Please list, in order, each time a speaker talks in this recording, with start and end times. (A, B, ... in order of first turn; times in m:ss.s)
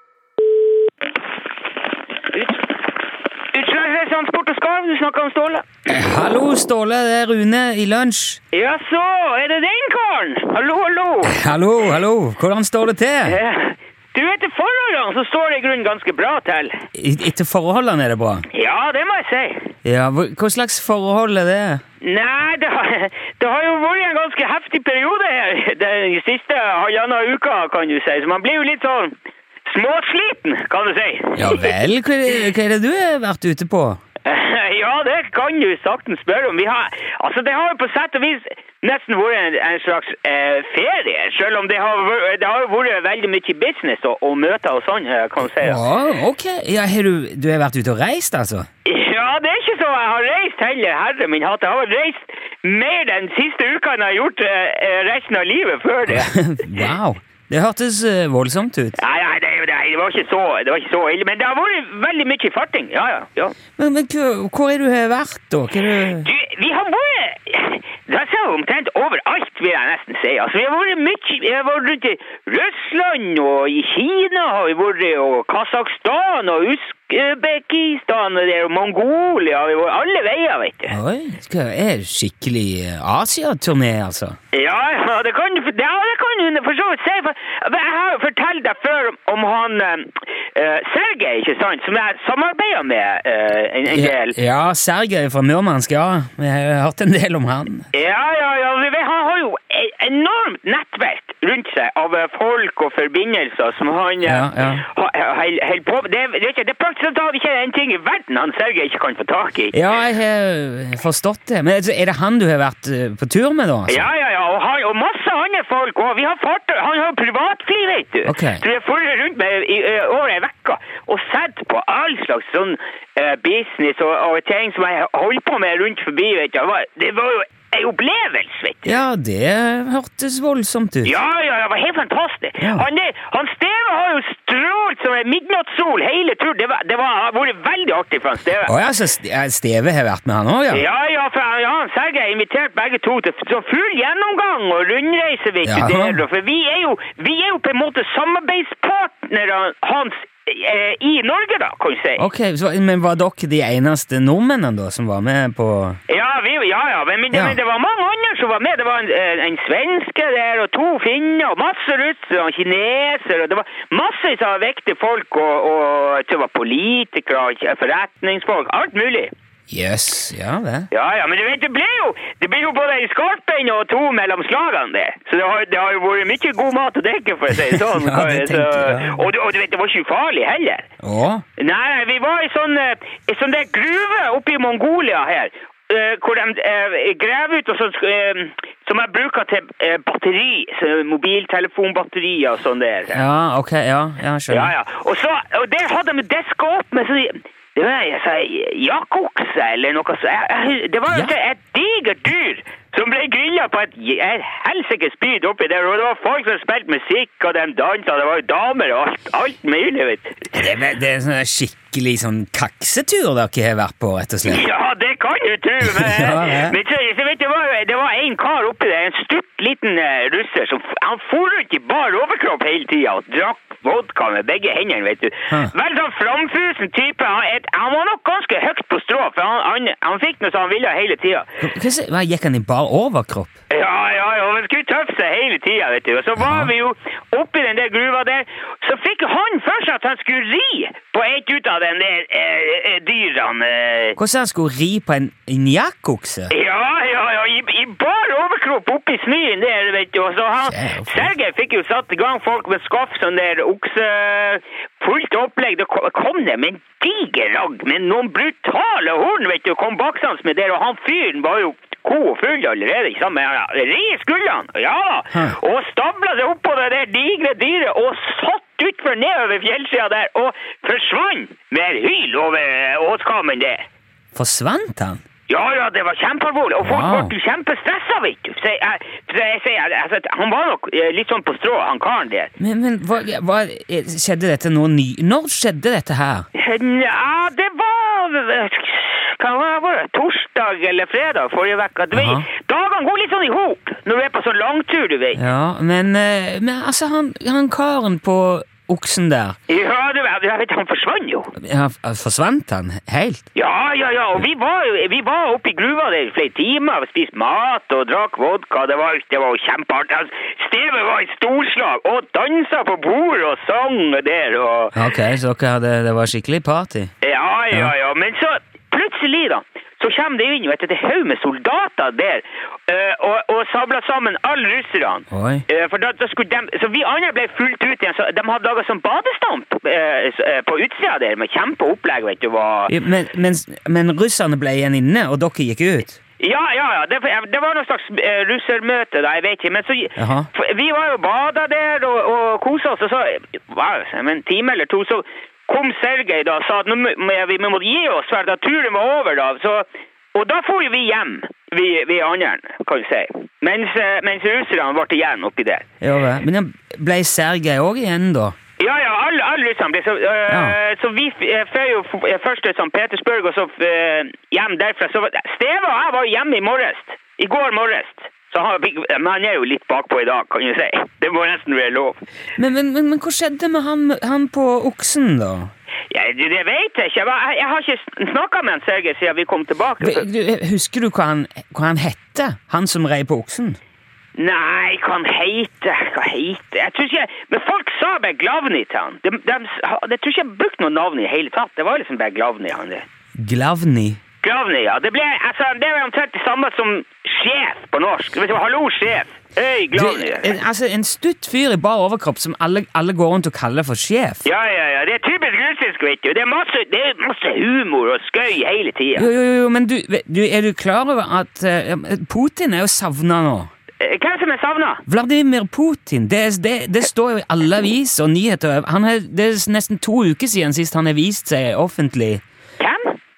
0:02.3-0:02.7 A
0:03.5-0:05.6 A
0:05.8-0:08.4 B
0:08.5-0:11.5 A
0:11.2-0:13.4 B
0:13.2-0:16.9 A
0:17.0-0:18.4 B
0:18.5-0:19.7 A
0:19.8-0:21.8 B
0:22.0-0:29.1 A
0:29.7-0:31.8 A
0:31.4-0:34.0 B
0:34.2-0:45.8 A
0:45.6-0:48.7 B
0:48.8-0:56.9 A
0:56.1-0:59.0 B
0:59.0-1:03.6 A
1:03.8-1:06.3 B
1:06.1-1:21.0 A
1:20.9-1:24.4 B
1:24.5-1:34.4 A
1:33.8-1:37.9 B
1:37.9-1:49.8 A
1:44.2-1:44.8 B
1:49.7-1:54.1 B
1:53.9-2:09.0 A
1:58.2-1:58.6 B
2:08.8-2:11.2 B
2:11.0-2:18.8 A
2:12.6-2:12.9 B
2:18.6-2:20.8 B
2:20.7-2:32.2 A
2:25.6-2:26.2 B
2:32.2-2:36.0 B
2:36.1-2:49.3 A
2:37.3-2:37.6 B
2:49.7-2:50.9 B
2:50.9-3:00.9 A
2:57.6-2:59.2 B
3:01.0-3:01.4 B
3:01.6-3:13.2 A
3:13.1-3:14.7 B
3:14.5-3:30.6 A
3:21.1-3:21.4 B
3:30.5-3:34.6 B
3:34.4-3:51.6 A
3:35.8-3:36.8 B
3:51.6-3:53.5 B
3:53.7-4:04.2 A
3:56.4-3:56.7 B
4:04.2-4:06.5 B
4:06.5-4:33.8 A
4:10.6-4:11.3 B
4:34.3-4:35.2 B
4:35.5-4:42.5 A
4:36.8-4:37.3 B
4:42.6-4:46.5 B
4:46.5-4:55.4 A
4:52.1-4:52.4 B
4:55.4-4:59.6 B
4:59.7-5:01.5 A
5:01.6-5:03.4 B
5:03.5-5:15.0 A
5:14.9-5:17.1 B
5:17.2-5:32.9 A
5:25.3-5:25.6 B
5:32.9-5:36.2 B
5:36.4-5:55.8 A
5:40.2-5:40.5 B
5:56.0-5:58.6 B
5:58.8-6:12.2 A
6:00.5-6:00.8 B
6:12.6-6:15.7 B
6:16.1-6:20.2 A
6:20.0-6:23.8 B
6:24.4-6:33.0 A
6:33.4-6:34.2 B
6:34.4-6:40.6 A
6:39.9-6:44.4 B
6:44.4-6:49.3 A
6:49.2-6:53.7 B
6:54.0-6:55.0 A
6:55.1-7:02.4 B
7:02.8-7:03.2 A